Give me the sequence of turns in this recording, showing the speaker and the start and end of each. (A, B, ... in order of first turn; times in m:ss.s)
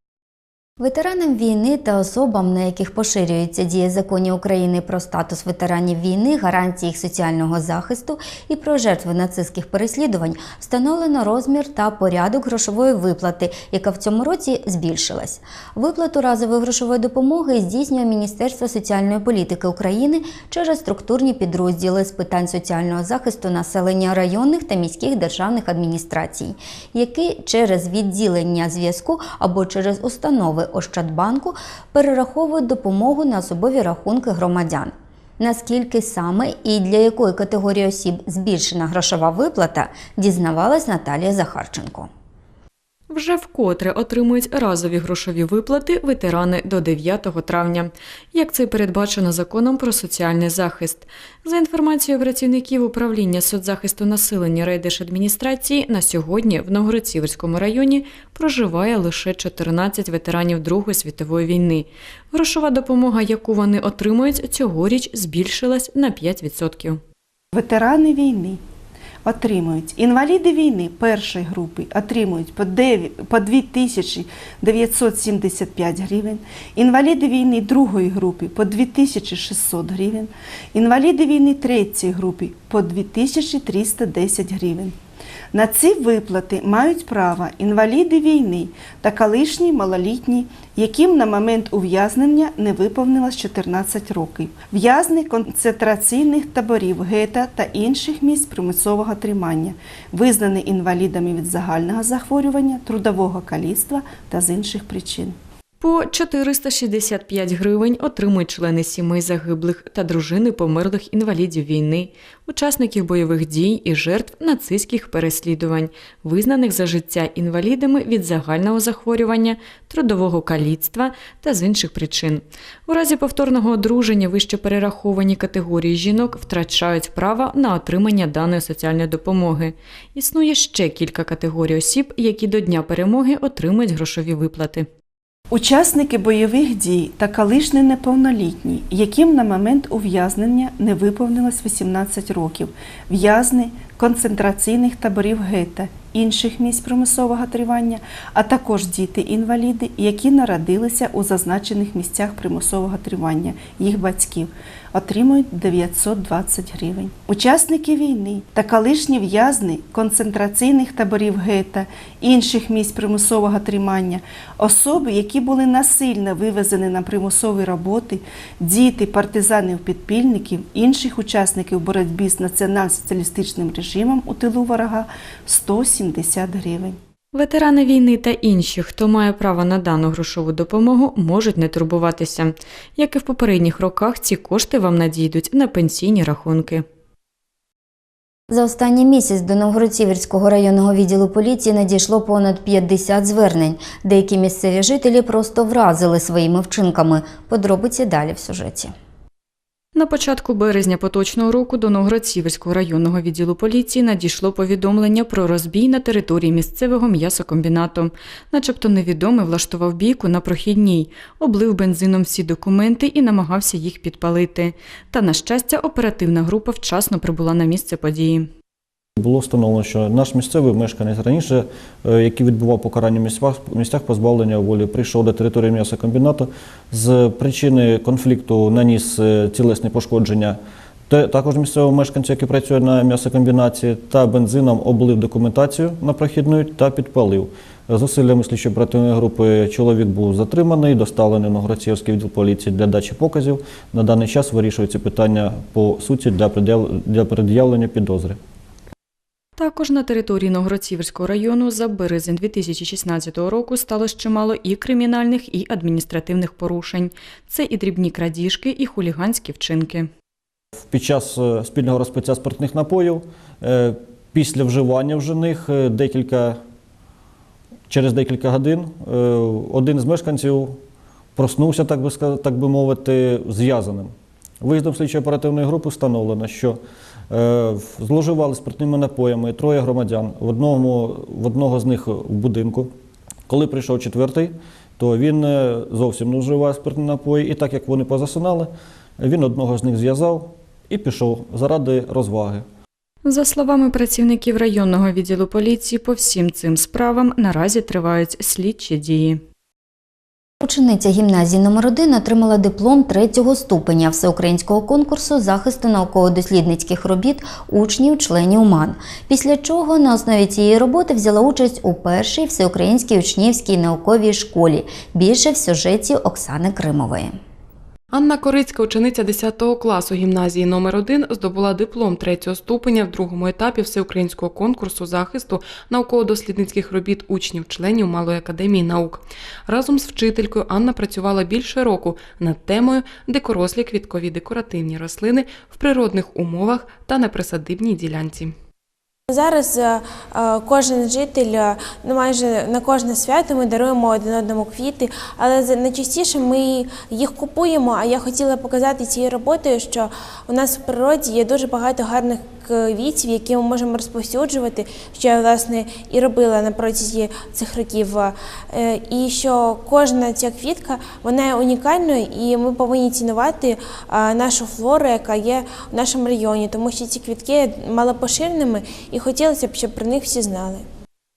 0:00.8-0:42.1 A
0:43.1-1:07.0 B
1:07.5-1:08.6 C
1:09.2-1:25.0 C
1:25.5-1:45.4 C
1:45.8-2:14.9 B
2:15.5-2:57.0 C
2:57.3-3:06.8 B
3:08.5-3:18.9 A
3:20.0-3:38.5 B
3:39.2-4:08.4 D
4:09.6-4:20.1 B
4:20.9-4:26.6 D
4:27.9-4:30.8 D
4:31.4-4:36.8 D
4:37.3-4:42.9 D
4:43.5-4:52.7 D
4:53.2-4:59.4 B
5:00.6-5:17.4 A
5:18.1-5:38.5 E
5:39.3-6:10.9 F